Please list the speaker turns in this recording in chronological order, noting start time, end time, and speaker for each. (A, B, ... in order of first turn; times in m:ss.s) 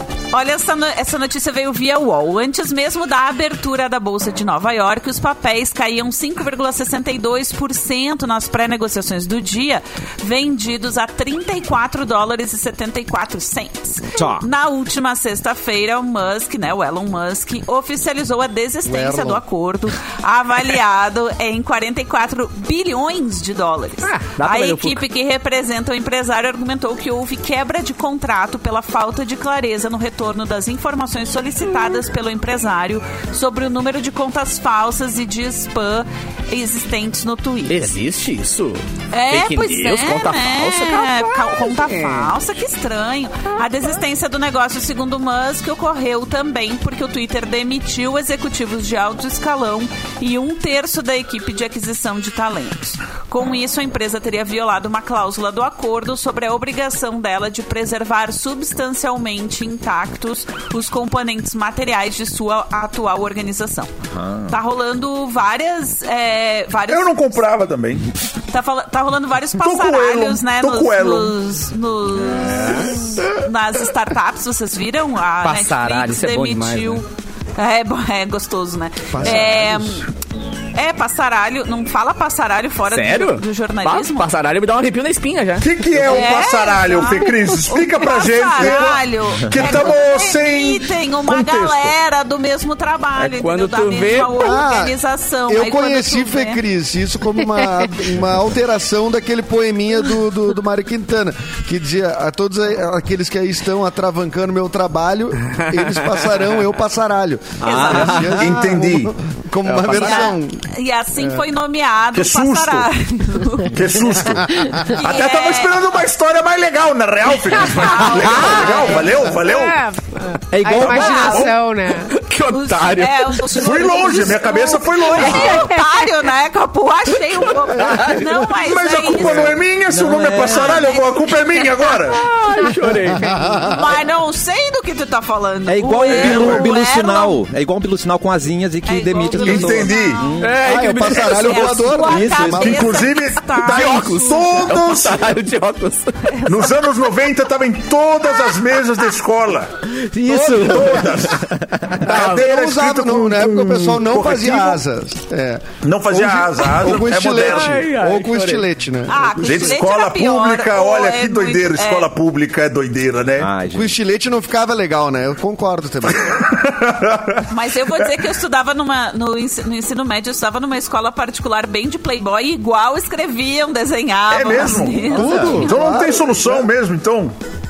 0:00.3-0:37.9 A
0:14.2-0:14.4 B
0:18.8-0:19.4 C
0:24.0-0:25.0 D
0:37.7-0:42.4 D
0:39.1-1:03.9 A
1:04.1-1:04.6 B
1:04.5-1:07.4 A
1:06.9-1:08.0 E
1:08.5-1:17.0 A
1:09.6-1:11.3 E
1:12.5-1:13.0 D
1:15.4-1:17.0 D
1:17.6-1:20.1 A
1:19.1-1:20.0 C
1:20.7-1:24.3 A
1:22.9-1:26.2 D
1:25.6-1:31.9 E
1:26.0-1:36.6 A
1:33.2-1:34.5 D
1:34.4-1:35.0 C
1:35.5-1:50.6 C
1:45.5-1:46.2 D
1:47.6-1:48.5 B
1:47.8-1:48.2 D
1:48.4-1:49.1 E
1:49.6-1:50.3 D
1:49.9-1:55.9 A
1:51.2-1:51.4 C
1:52.1-1:52.9 E
1:53.7-1:59.8 E
1:57.7-1:58.8 A
1:58.3-2:02.1 F
2:00.5-2:01.4 B
2:00.7-2:01.4 D
2:00.9-2:01.5 E
2:02.0-2:04.3 D
2:02.5-2:09.6 A
2:03.6-2:05.7 E
2:07.4-2:08.5 D
2:08.6-2:12.2 E
2:09.9-2:10.7 B
2:10.4-2:12.0 A
2:12.1-2:13.5 D
2:13.0-2:13.9 C
2:13.7-2:17.4 A
2:15.7-2:20.6 B
2:16.1-2:16.8 E
2:18.9-2:24.7 A
2:19.4-2:20.2 E
2:20.4-2:22.0 D
2:20.6-2:23.0 C
2:22.0-2:22.8 B
2:22.5-2:25.2 E
2:23.6-2:26.2 D
2:26.3-2:26.9 A
2:26.5-2:29.7 E
2:29.9-2:32.0 B
2:30.2-2:31.0 D
2:30.5-2:31.5 E
2:32.0-2:39.8 C
2:32.0-2:32.4 D
2:32.1-2:34.8 E
2:35.8-2:37.8 E
2:37.3-2:38.7 D
2:39.1-2:42.1 A
2:39.4-2:43.5 E
2:43.4-2:43.9 B
2:43.7-2:46.4 C
2:46.6-2:47.4 E
2:47.5-2:55.7 A
2:54.3-2:57.3 E
2:55.0-2:56.7 C
2:55.2-2:55.6 B